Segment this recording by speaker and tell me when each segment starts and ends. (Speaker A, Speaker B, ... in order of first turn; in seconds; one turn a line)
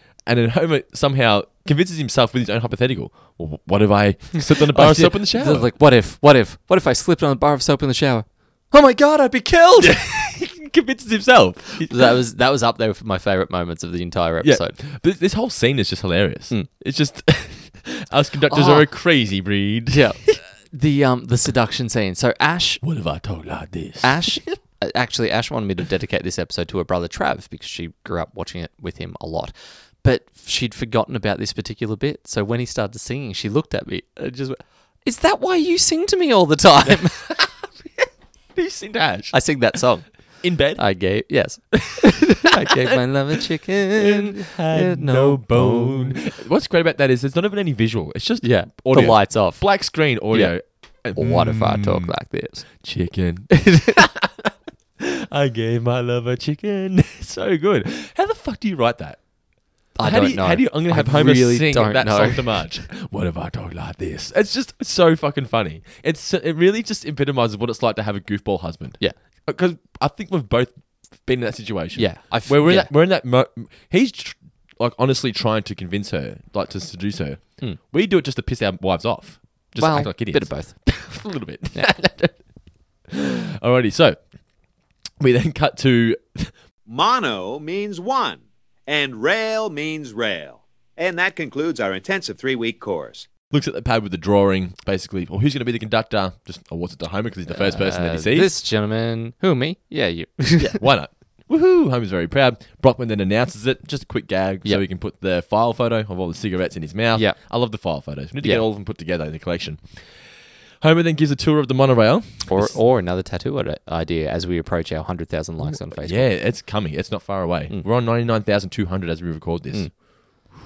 Speaker A: 0.3-5.7
Speaker B: 4.4-10.0
Speaker A: 9.8-12.0
Speaker B: 11.8-14.8
Speaker A: 14.4-20.4
Speaker B: 18.5-18.9
Speaker B: 19.9-22.8
Speaker A: 22.8-24.4
Speaker B: 24.0-37.3
Speaker A: 36.9-37.5
Speaker A: 38.5-39.4
Speaker B: 39.3-46.2
Speaker A: 40.4-40.8
Speaker A: 42.6-43.4
Speaker A: 44.0-52.1
Speaker B: 48.4-49.6
Speaker B: 50.3-50.5
Speaker B: 51.1-52.7
Speaker A: 52.7-59.2
Speaker B: 53.5-54.0
Speaker B: 60.0-62.8
Speaker A: 60.0-82.4
Speaker B: 72.0-72.9
Speaker B: 79.8-81.0
Speaker A: 83.1-84.2
Speaker A: 85.2-86.5
Speaker C: 86.9-88.4
Speaker C: 88.9-93.2
Speaker A: 93.5-98.5
Speaker B: 97.5-100.8
Speaker A: 100.6-110.2
Speaker A: 110.8-112.8
Speaker B: 112.5-116.3
Speaker A: 115.6-120.0